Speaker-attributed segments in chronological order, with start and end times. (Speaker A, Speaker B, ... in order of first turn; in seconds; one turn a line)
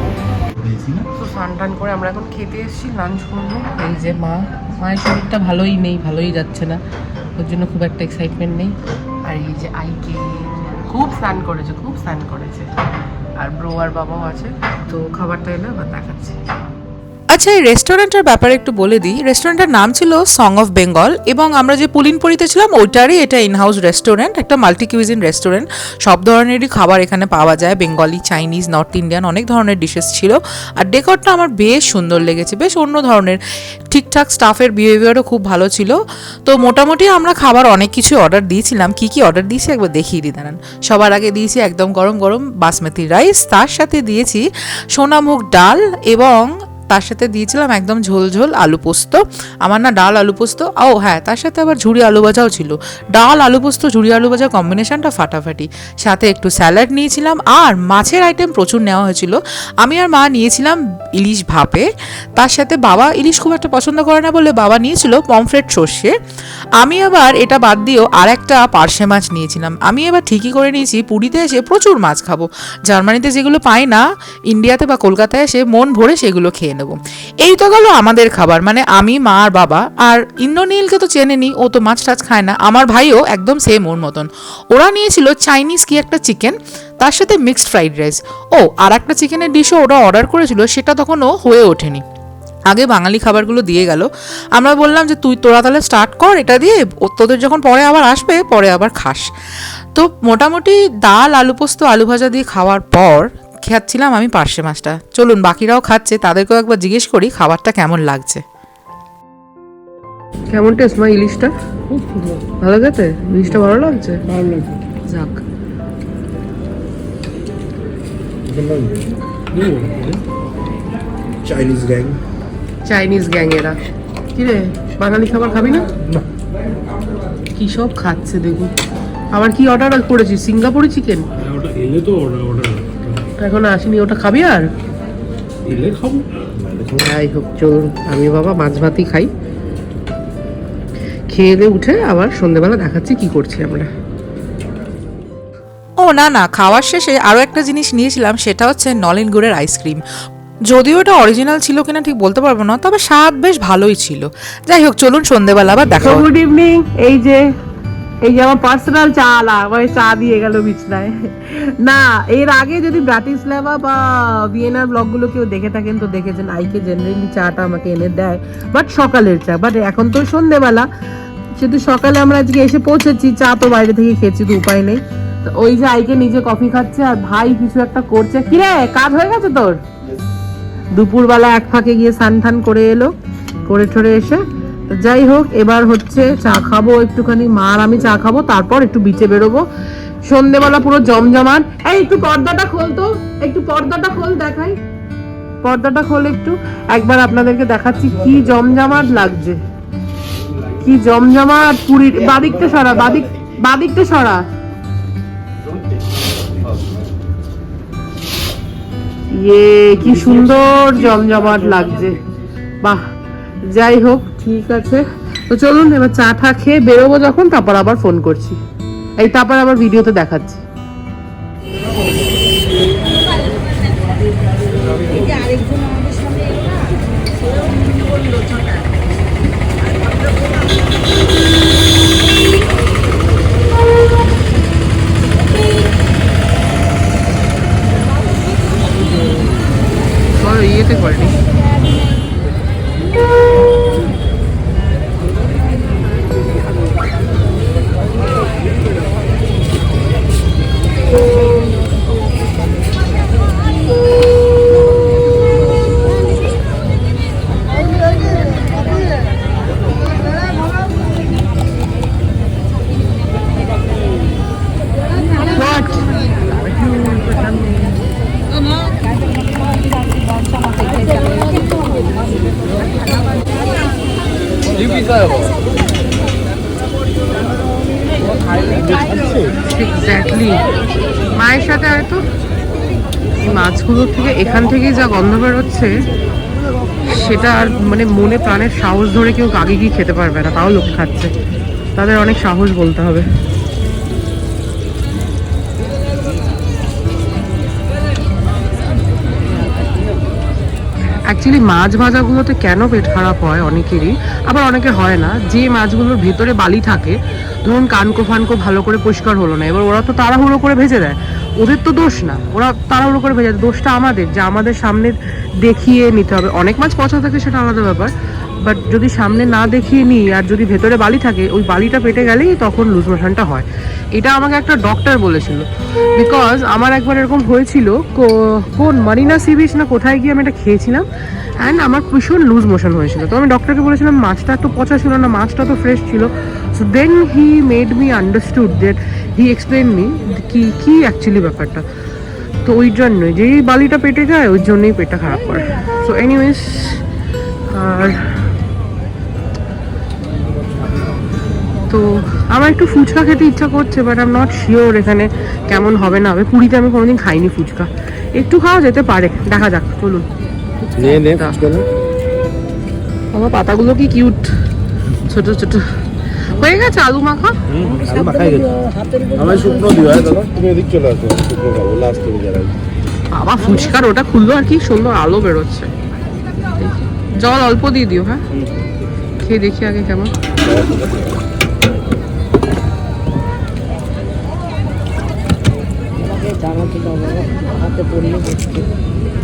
Speaker A: 0.6-1.1
Speaker B: 1.2-6.8
Speaker B: 7.4-8.7
Speaker B: 9.2-12.7
Speaker B: 13.4-16.4
Speaker C: 17.3-33.4
Speaker C: 33.9-66.2
Speaker C: 66.8-92.0
Speaker C: 92.7-99.3
Speaker C: 99.9-108.4
Speaker B: 110.5-111.5
Speaker D: 112.0-112.4
Speaker B: 112.6-114.2
Speaker D: 114.4-114.7
Speaker B: 115.1-115.4
Speaker E: 118.5-119.0
Speaker A: 119.5-120.2
Speaker E: 121.4-122.2
Speaker B: 122.8-123.8
Speaker B: 124.3-125.9
Speaker B: 127.6-128.7
Speaker B: 129.3-131.3
Speaker A: 131.4-133.3
Speaker B: 133.4-134.7
Speaker A: 135.6-136.9
Speaker E: 136.7-136.9
Speaker B: 137.0-139.3
Speaker B: 141.3-143.9
Speaker C: 146.0-150.0
Speaker C: 150.7-156.2
Speaker B: 156.0-157.4
Speaker B: 158.2-170.9
Speaker B: 171.6-179.8
Speaker B: 180.9-183.1
Speaker B: 183.7-189.6
Speaker B: 190.2-194.8
Speaker B: 195.6-199.6
Speaker A: 200.4-200.8
Speaker B: 200.8-204.4
Speaker E: 202.4-203.5
Speaker A: 205.6-206.8
Speaker B: 209.3-212.2
Speaker A: 209.9-212.2
Speaker B: 213.7-218.6
Speaker B: 219.2-220.6
Speaker B: 240.4-241.3
Speaker B: 265.5-267.8
Speaker E: 274.8-275.4
Speaker E: 278.6-279.6
Speaker B: 279.7-280.6
Speaker B: 281.3-282.2
Speaker B: 283.4-285.9
Speaker B: 287.1-291.3
Speaker B: 291.9-293.3
Speaker B: 301.3-318.1
Speaker B: 318.6-325.6
Speaker B: 326.1-331.1
Speaker B: 331.6-341.8
Speaker B: 342.6-347.0
Speaker B: 347.7-348.2
Speaker B: 351.9-360.3
Speaker B: 360.8-361.6
Speaker E: 361.0-361.9
Speaker B: 363.3-364.4
Speaker B: 365.3-365.9
Speaker B: 366.5-367.6
Speaker E: 367.7-368.6
Speaker D: 367.8-370.4
Speaker E: 369.4-372.7
Speaker B: 373.3-375.9
Speaker D: 373.6-373.9
Speaker B: 376.8-378.4
Speaker B: 379.4-380.3
Speaker E: 380.6-381.4
Speaker D: 386.2-388.9